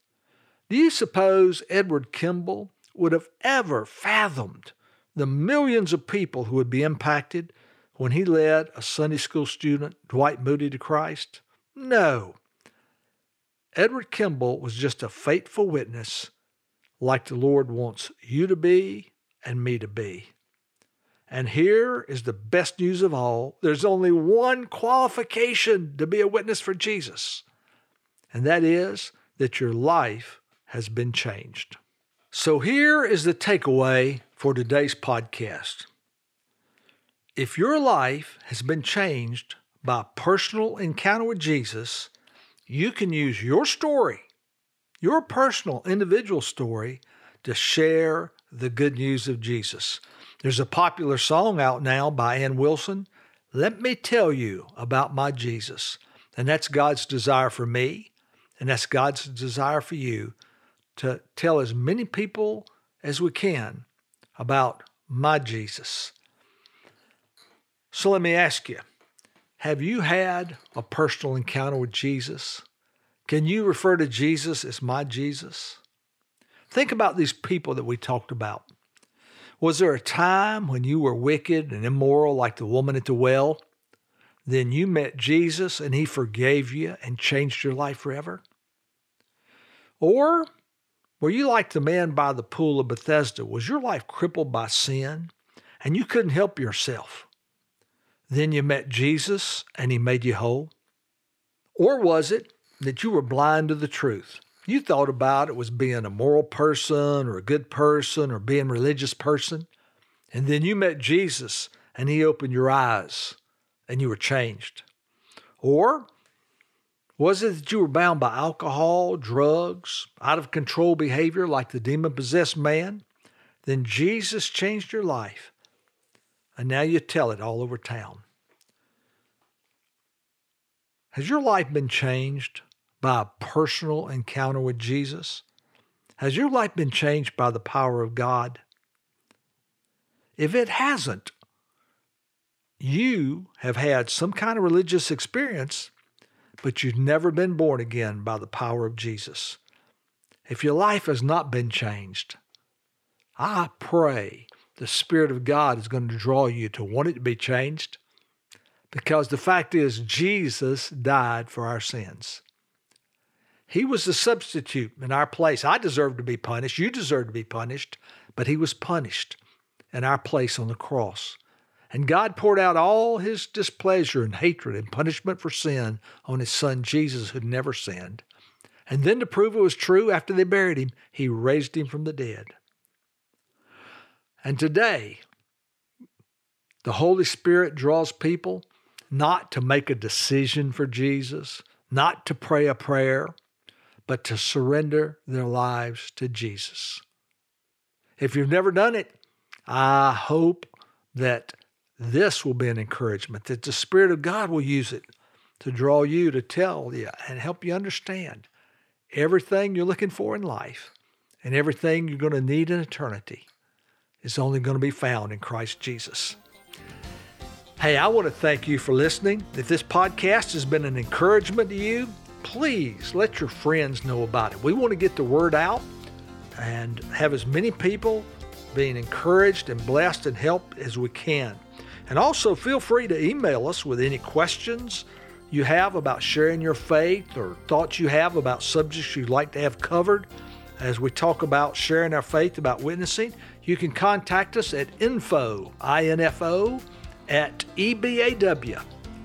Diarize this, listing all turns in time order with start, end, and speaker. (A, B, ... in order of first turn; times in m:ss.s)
0:00.7-0:12.4 A
0:13.8-0:16.3 A
0:17.0-0:20.3 A
0:21.3-0:27.4 A
0:28.3-0:31.8 A
0:32.3-0:35.9 A
0:37.4-0:42.1 A
0:42.7-0:44.3 A
0:45.0-1:00.4 A
1:01.0-1:06.1 A
1:07.9-1:08.8 A
1:09.6-1:12.6 A
1:13.3-1:15.8 A
1:16.7-1:18.7 A
1:19.6-1:23.6 A
1:24.4-1:28.4 A
1:30.0-1:30.5 A
1:31.2-1:37.3 A
1:38.3-1:40.7 A
1:41.8-1:49.7 A
1:50.3-1:53.4 A
1:53.9-1:54.8 A
1:55.6-1:56.1 A
1:57.2-2:03.0 A
2:03.6-2:05.5 A
2:06.6-2:08.2 A
2:11.1-2:15.4 A
2:16.2-2:18.6 A
2:20.4-2:21.3 A
2:22.8-2:25.9 A
2:26.6-2:29.6 A
2:30.5-2:32.4 A
2:33.4-2:38.0 A
2:38.9-2:42.4 A
2:43.7-2:49.4 A
2:49.9-2:51.4 A
2:51.9-2:58.2 A
2:58.9-3:02.5 A
3:04.4-3:05.2 A
3:06.8-3:13.3 A
3:14.1-3:17.0 A
3:18.2-3:19.1 A
3:19.7-3:25.1 A
3:25.6-3:28.5 A
3:29.1-3:33.5 A
3:34.2-3:36.4 A
3:37.8-3:45.9 A
3:46.6-4:08.8 A